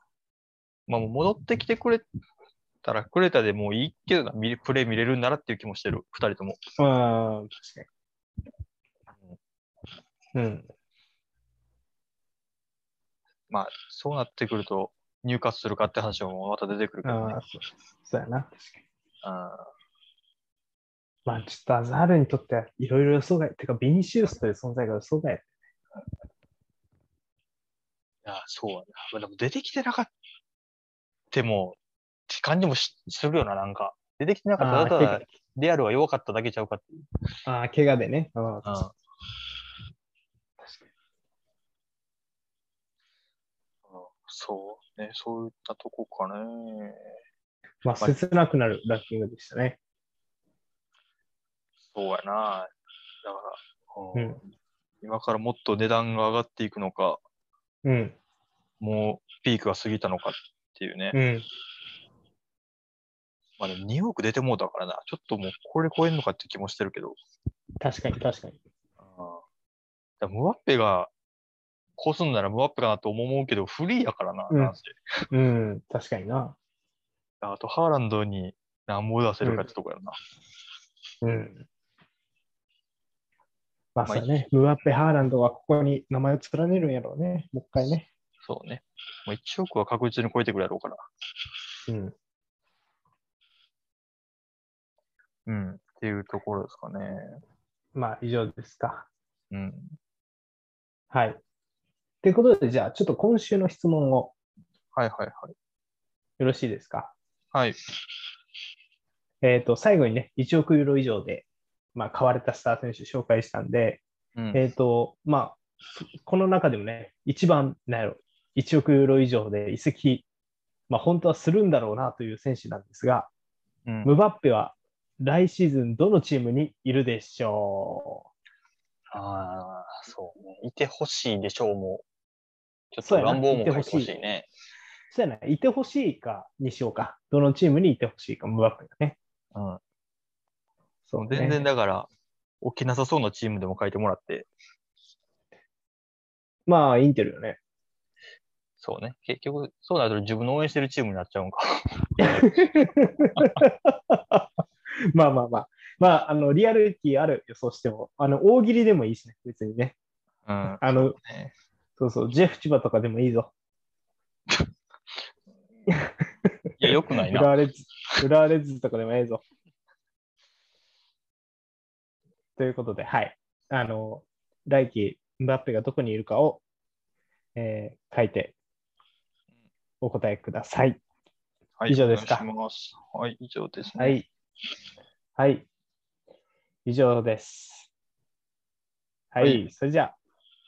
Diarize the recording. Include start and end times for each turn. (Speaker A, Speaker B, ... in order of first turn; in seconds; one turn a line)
Speaker A: 0.9-2.0
Speaker A: 2.8-6.6
Speaker B: 6.8-7.9
Speaker B: 10.3-10.7
Speaker A: 13.5-17.4
Speaker B: 17.0-18.8
Speaker A: 19.2-19.7
Speaker B: 21.3-25.5
Speaker A: 28.2-30.1
Speaker A: 31.3-31.8
Speaker A: 32.3-37.1
Speaker B: 34.6-35.3
Speaker B: 37.5-38.8
Speaker A: 38.6-38.9
Speaker B: 40.6-40.9
Speaker A: 43.9-47.1
Speaker B: 47.8-49.8
Speaker A: 51.8-52.7
Speaker A: 53.2-54.4
Speaker B: 54.1-54.4
Speaker A: 55.0-57.2
Speaker B: 57.8-58.2
Speaker A: 58.8-61.2
Speaker B: 61.1-61.5
Speaker A: 63.6-67.2
Speaker B: 67.8-68.6
Speaker A: 69.0-69.4
Speaker A: 70.2-71.1
Speaker A: 72.0-75.0
Speaker B: 74.5-74.8
Speaker B: 75.3-76.6
Speaker A: 77.4-80.2
Speaker B: 79.4-79.7
Speaker B: 81.2-81.7
Speaker B: 84.0-88.1
Speaker A: 84.1-84.4
Speaker A: 88.4-91.0
Speaker B: 91.9-92.1
Speaker A: 95.5-97.4
Speaker B: 98.0-99.1
Speaker A: 99.5-100.0
Speaker B: 101.1-101.4
Speaker B: 102.2-104.3
Speaker A: 104.9-105.5
Speaker B: 106.4-107.2
Speaker B: 109.4-114.0
Speaker B: 114.5-120.3
Speaker B: 120.9-123.3
Speaker A: 123.9-124.1
Speaker B: 124.0-128.2
Speaker A: 129.1-132.1
Speaker A: 132.9-134.5
Speaker B: 133.0-134.1
Speaker B: 135.1-139.2
Speaker A: 139.5-139.8
Speaker B: 141.1-141.6
Speaker A: 141.2-142.1
Speaker A: 142.6-144.5
Speaker B: 146.7-147.6
Speaker A: 148.8-153.6
Speaker B: 152.2-154.5
Speaker B: 155.1-159.9
Speaker A: 160.4-161.5
Speaker B: 160.6-161.2
Speaker B: 162.0-163.5
Speaker B: 165.9-169.4
Speaker A: 166.8-167.5
Speaker B: 172.6-176.6
Speaker B: 177.6-178.5
Speaker B: 180.0-181.0
Speaker A: 181.8-184.2
Speaker B: 181.9-182.5
Speaker B: 184.0-184.3
Speaker B: 185.4-185.7
Speaker B: 186.8-187.9
Speaker B: 189.3-190.2